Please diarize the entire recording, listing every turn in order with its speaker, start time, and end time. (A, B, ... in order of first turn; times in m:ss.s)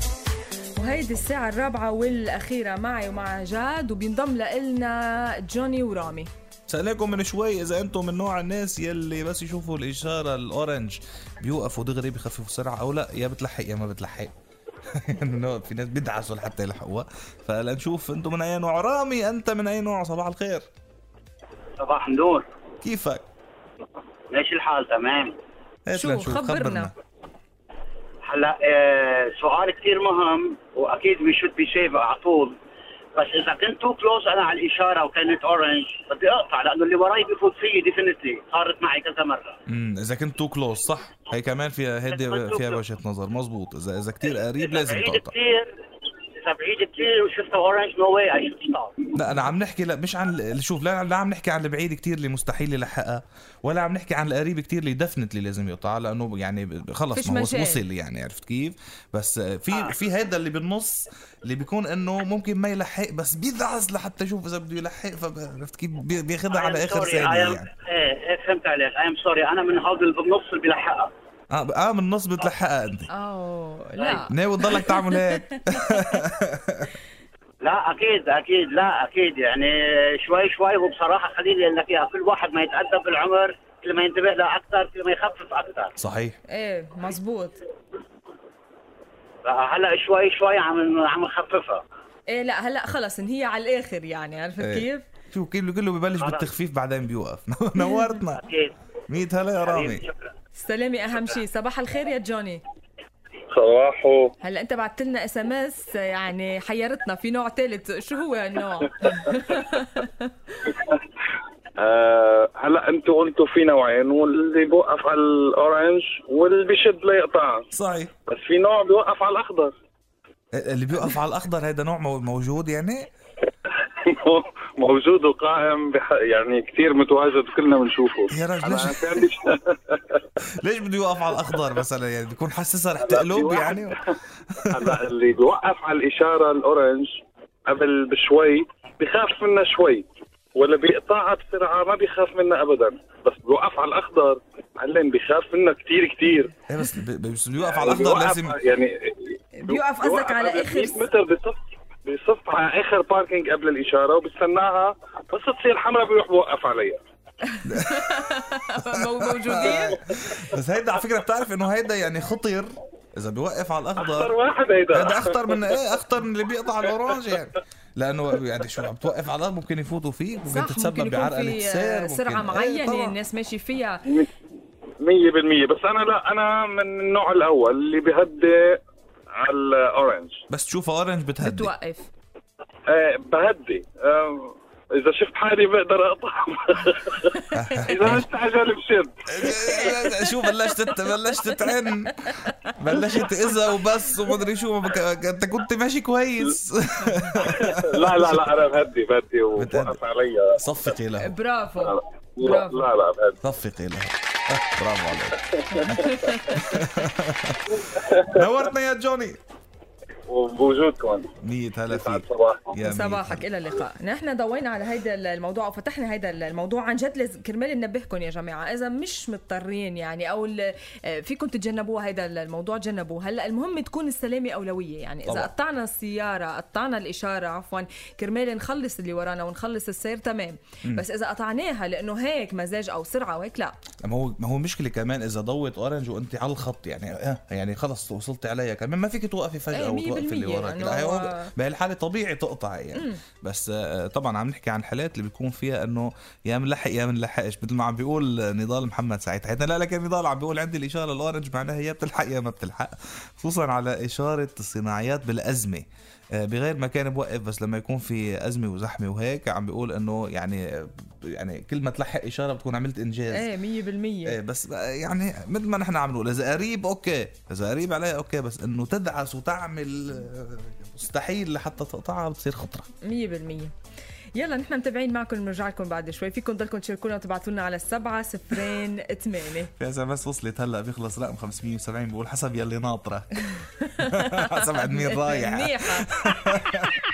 0:00.8-0:06.3 A
0:06.7-0:14.3 B
0:14.9-0:20.7 B
0:21.8-0:22.5 C
0:22.8-0:23.2 B
0:24.3-0:25.4 C
0:25.9-0:26.9 B
0:25.9-0:26.9 A
0:28.2-0:32.6 C
0:33.2-0:39.6 C
0:39.7-0:45.3 B
0:42.1-0:42.8 C
0:44.6-0:45.7 C
0:46.4-0:49.0 C
0:49.1-1:07.7 B
0:57.2-0:57.8 A
1:06.5-1:11.1 C
1:11.5-1:13.1 B
1:13.1-1:16.2 A
1:14.0-1:14.3 C
1:14.3-1:16.9 B
1:17.6-1:25.9 C
1:26.0-1:26.4 B
1:26.5-1:27.6 A
1:29.4-1:31.8 C
1:32.3-1:35.1 A
1:34.6-1:38.4 B
1:36.2-1:36.5 C
1:38.3-1:38.7 C
1:39.1-1:40.0 B
1:39.6-1:40.3 C
1:40.6-1:42.6 A
1:43.5-1:44.3 D
1:44.4-1:50.6 A
1:50.7-1:51.0 D
1:51.8-1:57.7 D
1:57.7-1:58.1 B
1:58.3-1:59.7 D
2:00.5-2:03.1 B
2:03.7-2:10.3 D
2:08.3-2:09.2 B
2:10.4-2:14.0 B
2:13.0-2:14.2 D
2:14.6-2:15.0 B
2:14.7-2:26.5 D
2:26.7-2:28.6 B
2:27.6-2:37.0 D
2:29.6-2:31.1 A
2:37.5-2:40.0 A
2:37.6-2:38.3 B
2:38.8-2:44.3 B
2:44.0-2:45.8 D
2:44.9-2:53.2 B
2:50.5-2:54.0 A
2:55.0-3:00.4 D
3:00.5-3:01.7 B
3:01.4-3:02.1 A
3:02.9-3:09.6 D
3:07.5-3:08.3 B
3:09.3-3:17.7 B
3:09.8-3:11.7 A
3:12.5-3:13.3 A
3:17.4-3:20.6 D
3:19.6-3:20.0 B
3:20.6-3:21.4 B
3:21.2-3:22.8 A
3:21.8-3:23.4 D
3:23.4-3:27.8 B
3:25.8-3:26.6 D
3:26.0-3:26.6 A
3:27.7-3:28.4 D
3:28.3-3:29.4 B
3:30.3-3:31.3 D
3:31.4-3:33.4 B
3:31.9-3:32.7 D
3:32.8-3:53.8 A
3:54.0-4:23.5 B
3:59.7-4:01.5 A
4:03.0-4:03.2 A
4:23.3-4:24.4 A
4:24.3-4:32.9 B
4:33.0-4:33.7 A
4:34.3-4:39.7 A
4:39.8-4:43.4 B
4:44.0-4:46.1 A
4:44.0-4:46.9 B